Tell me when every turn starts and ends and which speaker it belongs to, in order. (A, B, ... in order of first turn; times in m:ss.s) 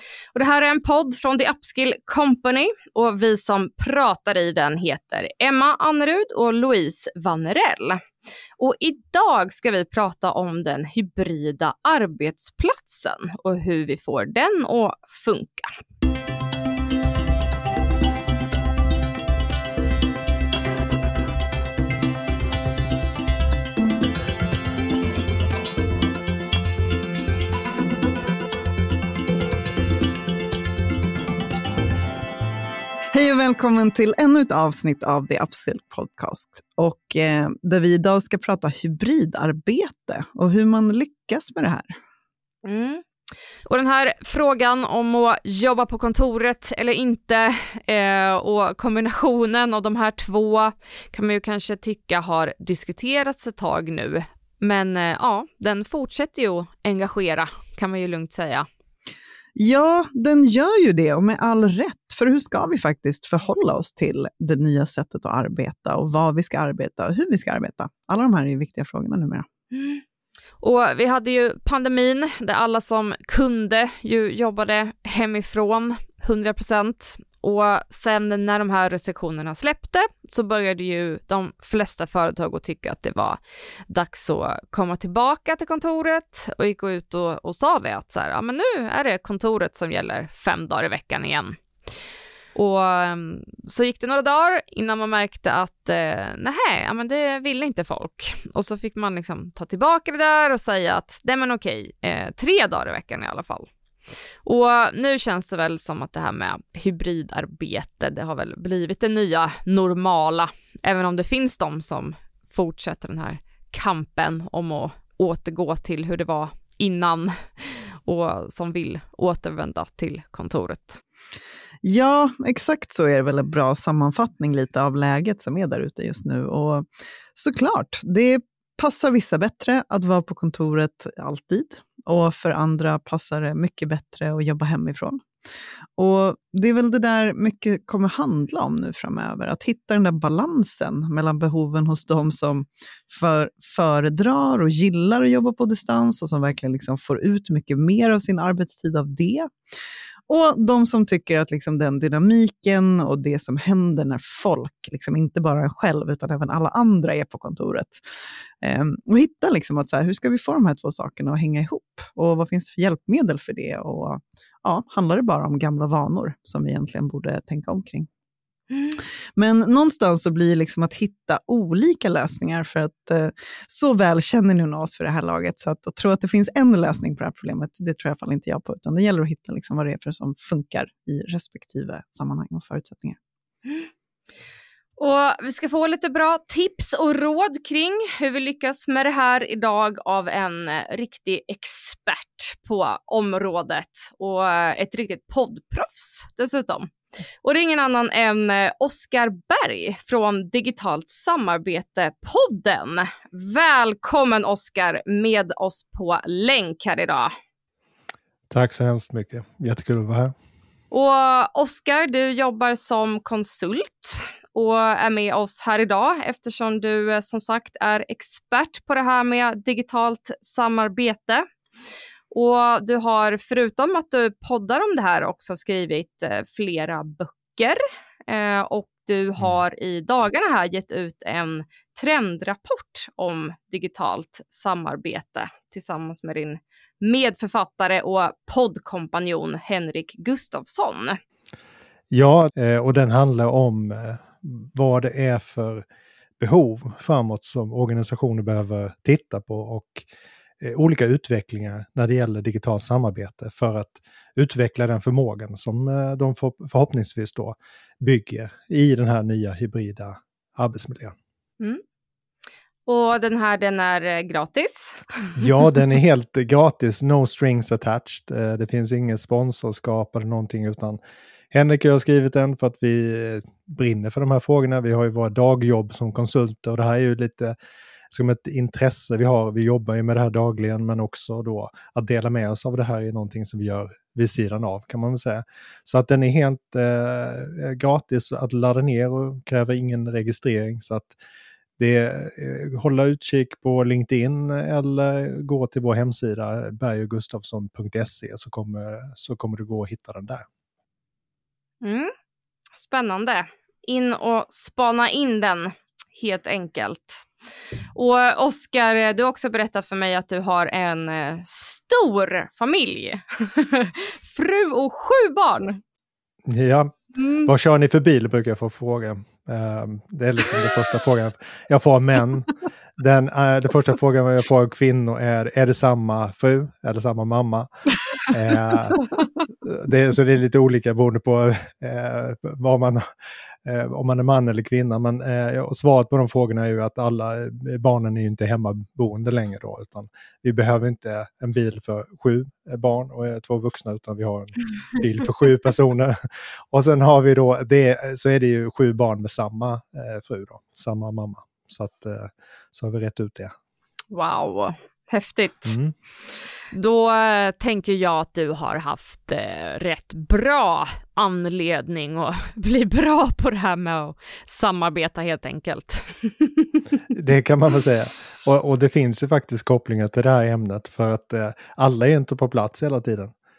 0:00.3-0:08.0 A
0:08.6-0:15.7 A
0:33.1-0:41.9 B
0:42.6-0:43.0 A
0:43.7-0:58.7 A
0:59.6-1:09.5 B
1:09.7-1:10.0 A
1:10.6-1:31.6 A
1:32.5-1:43.7 A
1:44.4-2:01.0 A
2:01.8-2:15.2 B
2:16.0-2:29.5 B
2:30.3-2:38.0 B
2:38.6-2:48.1 B
2:48.7-2:49.0 A
2:49.4-3:03.2 B
3:05.0-3:16.9 A
3:17.4-3:27.3 A
3:28.5-3:30.3 C
3:30.9-3:41.4 A
3:42.3-4:01.2 A
4:02.1-4:05.8 C
4:06.4-4:10.1 C
4:10.6-4:21.2 C
4:22.9-4:25.3 A
4:25.4-4:31.0 C
4:31.5-4:37.5 C
4:38.1-4:51.2 C
4:51.8-5:00.4 C
5:01.8-5:02.1 A
5:02.7-5:07.3 A
5:08.0-5:15.8 A
5:16.5-5:29.1 C
5:17.2-5:17.5 A
5:29.6-5:33.1 C
5:33.6-5:53.5 C
5:54.1-5:55.8 A
5:55.7-5:55.9 C
5:56.7-6:06.8 A
6:07.1-6:13.3 C